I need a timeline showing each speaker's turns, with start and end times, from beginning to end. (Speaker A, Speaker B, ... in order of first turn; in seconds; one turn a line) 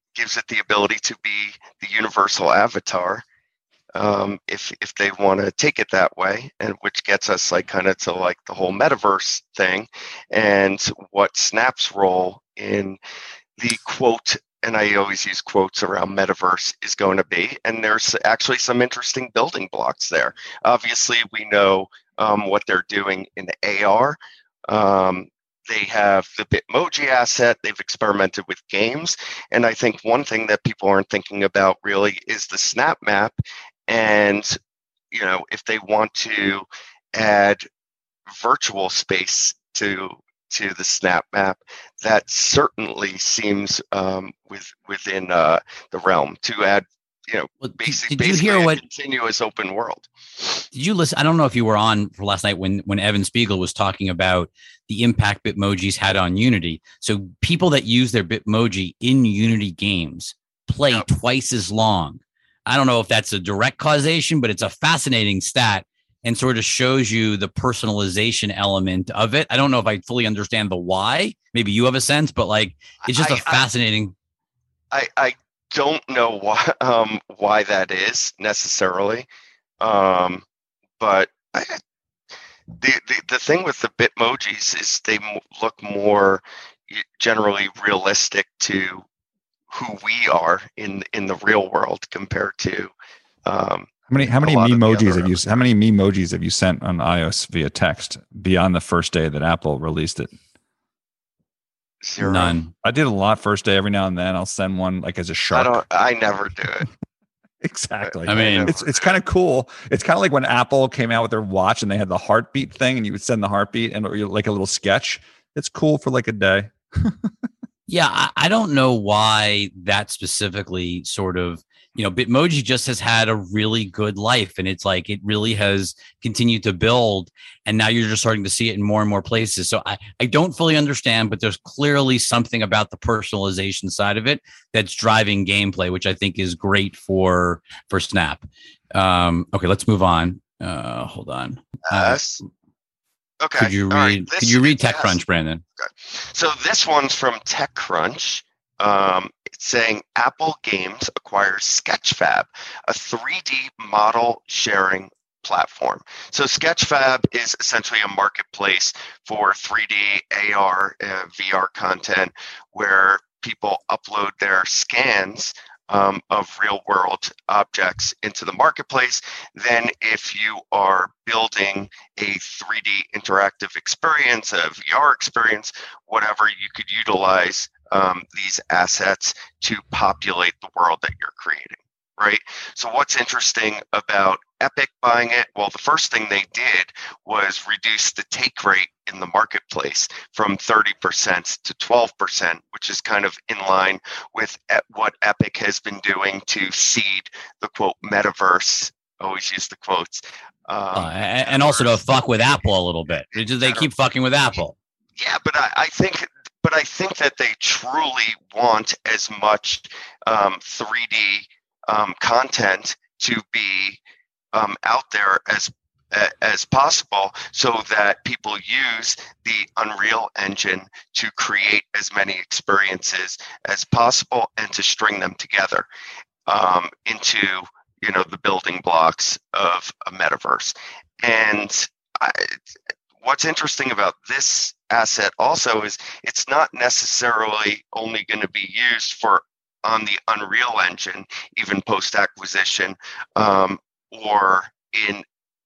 Speaker A: 0.1-3.2
Speaker A: 3.9-13.0
Speaker A: 13.6-24.2
Speaker A: 24.7-33.4
Speaker A: 33.9-34.6
Speaker A: 35.1-37.6
Speaker A: 38.3-50.6
Speaker B: 47.6-48.8
Speaker B: 50.7-74.1
Speaker A: 73.1-73.6
Speaker A: 74.9-79.3
Speaker A: 79.8-80.4
Speaker A: 81.0-81.8
Speaker A: 82.7-89.0
Speaker A: 89.7-92.9
Speaker A: 93.5-95.6
Speaker C: 94.1-100.3
Speaker A: 102.0-102.6
Speaker B: 102.2-102.7
Speaker C: 102.8-105.8
Speaker A: 105.5-106.9
Speaker C: 107.6-117.3
Speaker A: 108.0-108.9
Speaker B: 108.2-108.7
Speaker B: 117.9-142.2
Speaker A: 141.9-142.4
Speaker A: 143.4-145.2
Speaker B: 143.6-145.6
Speaker A: 145.8-202.7
Speaker B: 200.9-204.7
Speaker A: 203.3-203.9
Speaker A: 205.2-214.0
Speaker A: 214.5-225.8
Speaker A: 226.5-232.6
Speaker A: 233.2-245.2